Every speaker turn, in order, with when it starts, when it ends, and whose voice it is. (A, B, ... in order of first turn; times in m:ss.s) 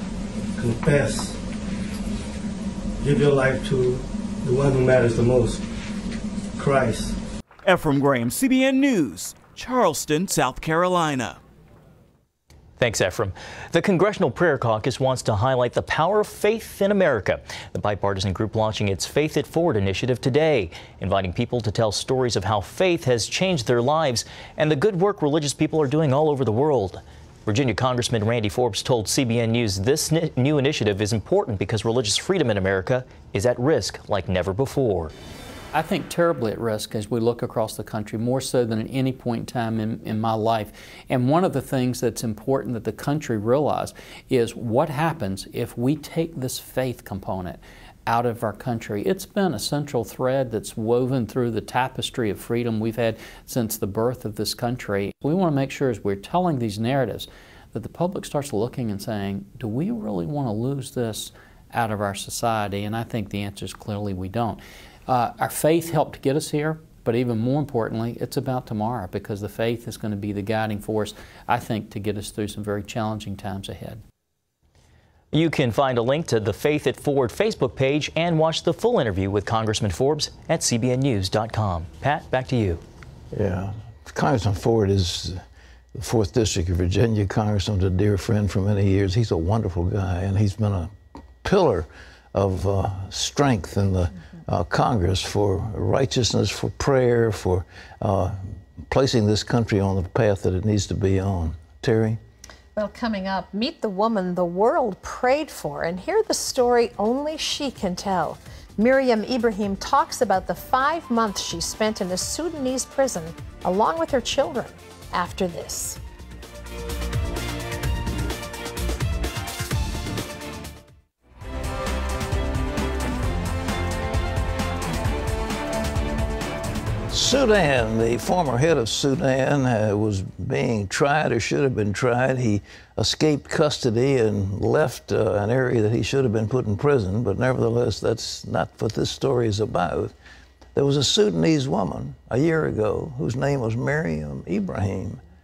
0:00.6-0:01.4 A
0:03.0-0:05.6 A
0:06.6-0:07.2 A
0:07.6-0:11.4 B
0:12.8-0:35.1 C
0:35.7-1:14.0 D
1:15.3-1:22.8 C
1:23.3-1:25.4 E
1:26.0-1:42.2 E
1:42.8-1:56.0 F
2:07.1-2:20.1 E
2:20.8-2:25.2 E